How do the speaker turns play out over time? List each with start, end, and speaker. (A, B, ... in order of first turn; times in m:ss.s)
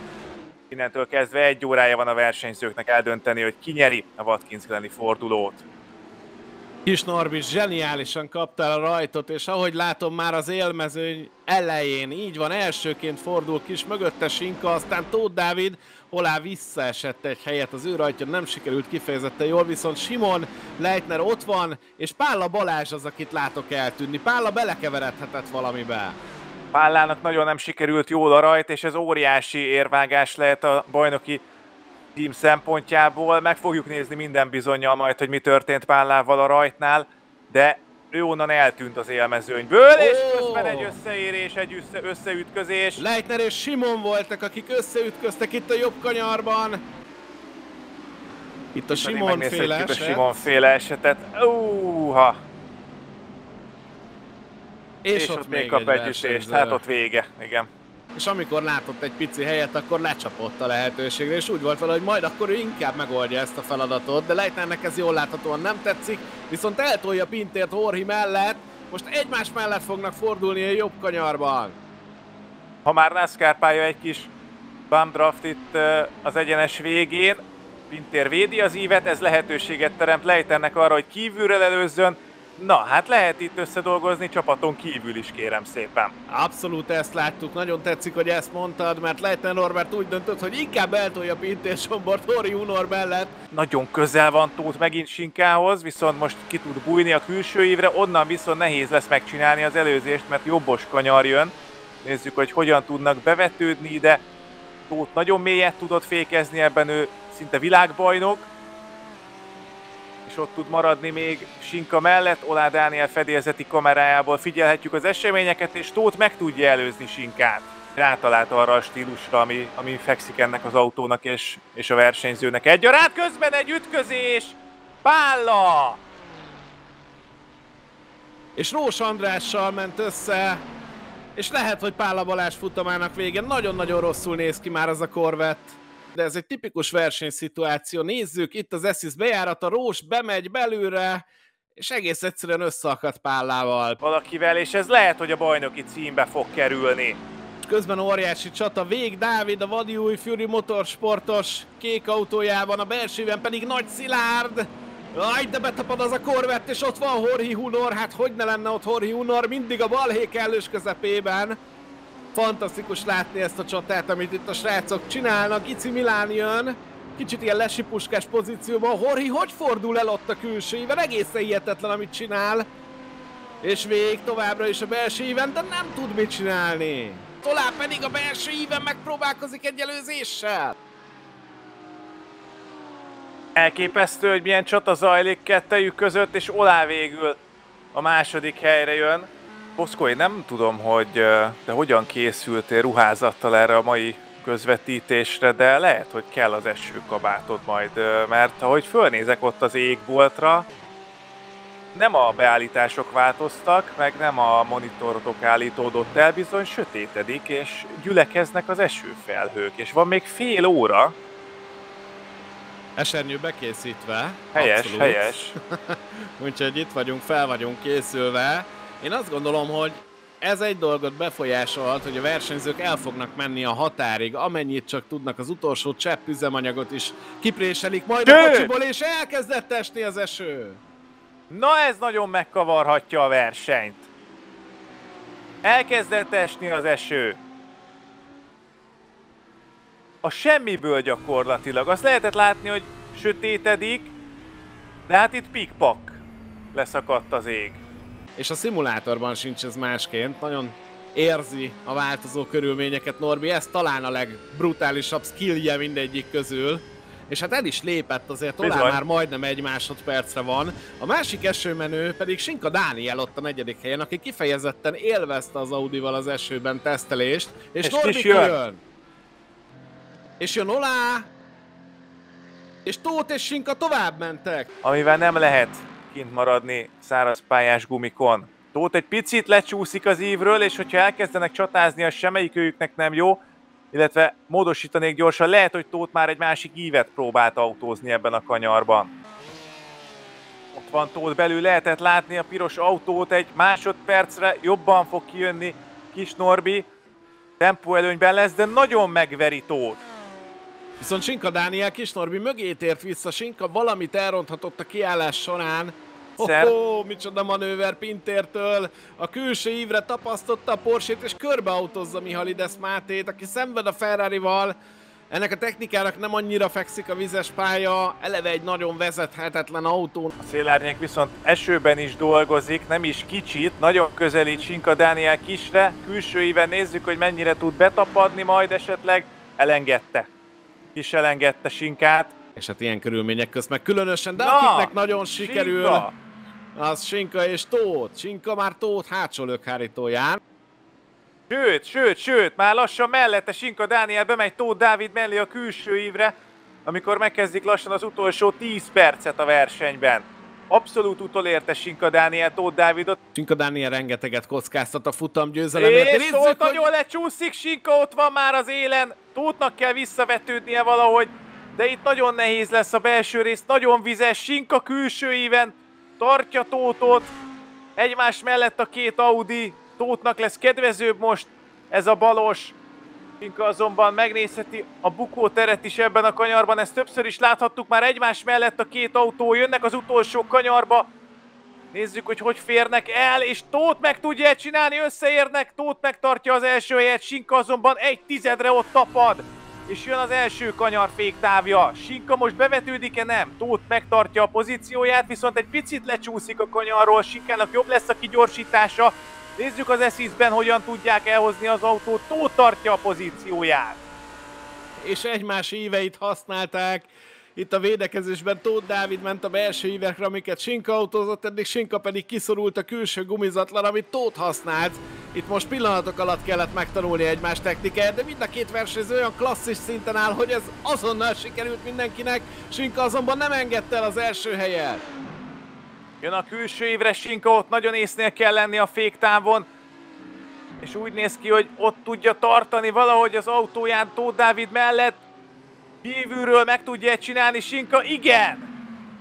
0:00.7-0:05.6 A
0:06.8-0:26.2 B
0:26.7-0:31.4 A
0:32.2-0:43.0 A
0:39.9-0:41.0 B
0:43.0-0:46.8 B
0:48.7-0:50.5 B
0:48.9-0:52.4 A
0:55.0-0:56.8 B
0:55.1-0:57.7 A
0:58.1-1:11.8 B
1:12.8-1:14.3 A
1:14.9-1:26.1 A
1:26.3-1:33.3 B
1:33.5-1:44.2 A
1:44.9-1:48.5 A
1:50.2-2:06.0 A
2:08.6-2:10.6 B
2:11.3-2:21.2 B
2:21.8-2:24.0 B
2:24.0-2:27.2 A
2:27.6-2:41.6 B
2:42.3-2:52.6 B
2:53.6-3:00.7 B
3:03.6-3:07.4 A
3:07.9-3:20.7 A
3:21.9-3:31.2 A
3:33.0-3:50.8 B
3:34.5-3:35.5 A
3:48.2-3:48.7 A
3:51.5-3:54.1 A
3:55.6-3:57.4 A
4:00.2-4:04.1 A
4:05.1-4:06.2 A
4:06.7-4:07.8 A
4:08.4-4:28.8 B
4:18.6-4:19.0 A
4:27.8-4:28.5 A
4:30.4-4:31.3 B
4:32.8-4:34.7 B
4:34.8-4:43.4 A
4:43.9-4:49.1 A
4:50.7-4:56.9 A
4:57.6-5:00.0 A
5:01.0-5:14.7 B
5:06.4-5:06.7 A
5:15.3-5:20.3 B
5:20.4-5:30.3 A
5:30.9-5:32.3 A
5:32.6-5:36.1 B
5:34.4-5:36.1 A
5:36.7-5:40.4 B
5:41.5-5:46.3 A
5:46.8-5:53.2 A
5:53.3-5:56.8 B
5:55.7-6:07.3 A
6:08.0-6:12.8 A
6:13.4-6:21.1 A
6:21.9-6:44.0 A
6:45.0-7:05.0 B
7:06.2-7:09.7 A
7:10.8-7:15.2 A
7:16.0-7:18.7 A